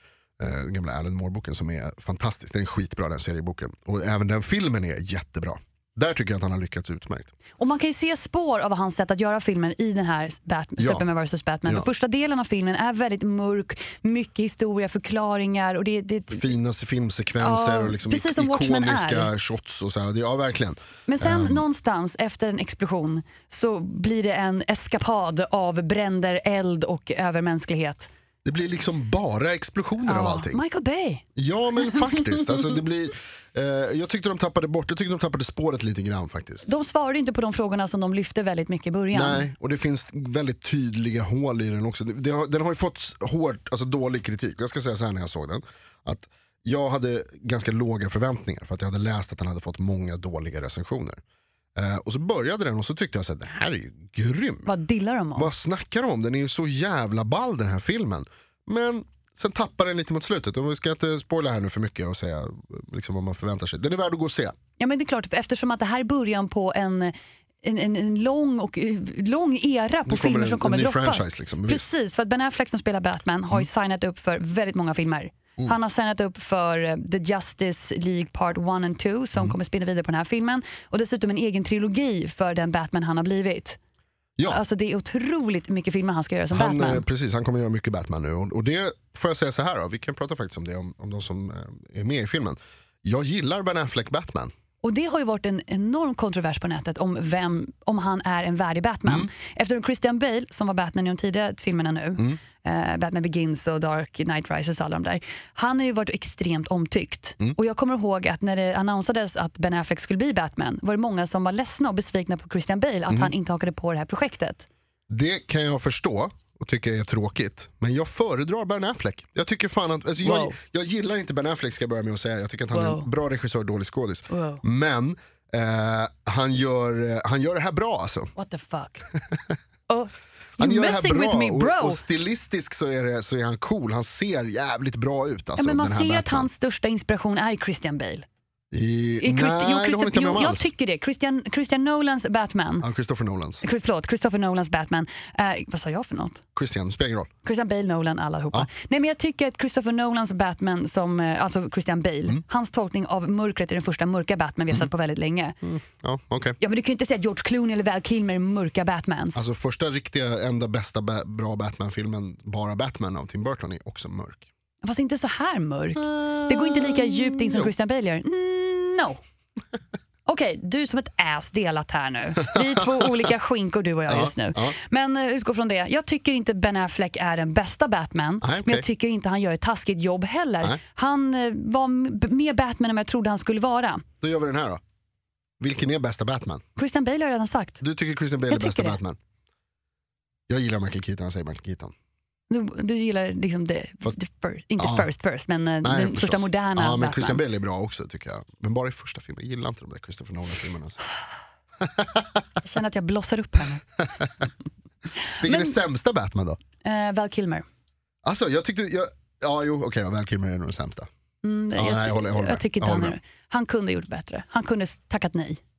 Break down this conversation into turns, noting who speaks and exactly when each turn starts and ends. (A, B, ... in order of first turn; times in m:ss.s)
0:00.4-0:07.3 A
0:07.6-0:16.5 B
0:10.8-0:11.0 A
0:16.3-0:21.6 A
0:17.4-0:19.3 B
0:21.1-0:28.1 B
0:28.4-0:30.6 A
0:30.0-0:31.2 B
0:31.4-0:36.7 A
0:31.9-0:32.2 B
0:36.6-0:39.4 B
0:39.1-0:51.2 A
0:51.8-0:54.7 A
0:54.6-0:55.5 B
0:55.4-1:04.6 A
1:04.8-1:23.8 B
1:10.1-1:11.9 A
1:24.4-1:27.0 B
1:26.5-1:34.5 A
1:34.8-1:54.6 B
1:55.1-2:08.3 A
2:00.2-2:00.6 B
2:02.7-2:03.1 B
2:04.3-2:04.6 B
2:08.4-2:09.0 B
2:09.9-2:12.0 B
2:10.6-2:16.5 A
2:15.6-2:18.2 B
2:18.7-2:20.7 A
2:19.2-2:22.9 B
2:22.8-2:23.6 A
2:23.6-2:26.4 B
2:26.5-2:27.3 A
2:27.4-2:35.6 B
2:35.6-2:36.6 A
2:36.6-2:39.4 B
2:39.3-2:44.5 A
2:44.8-2:49.2 B
2:46.0-2:47.7 A
2:50.2-3:04.0 B
2:54.1-2:54.7 A
2:58.4-2:58.8 A
3:04.2-3:04.8 A
3:05.6-3:06.6 A
3:06.8-3:07.8 B
3:07.8-3:09.2 A
3:08.5-3:09.0 B
3:10.5-3:11.9 A
3:12.5-3:17.4 B
3:14.8-3:15.1 A
3:15.8-3:21.0 A
3:21.8-3:22.4 A
3:22.6-3:23.8 B
3:25.4-3:26.6 A
3:25.4-3:25.8 B
3:26.8-3:27.6 B
3:28.2-3:31.1 A
3:31.4-3:35.6 B
3:31.7-3:33.2 A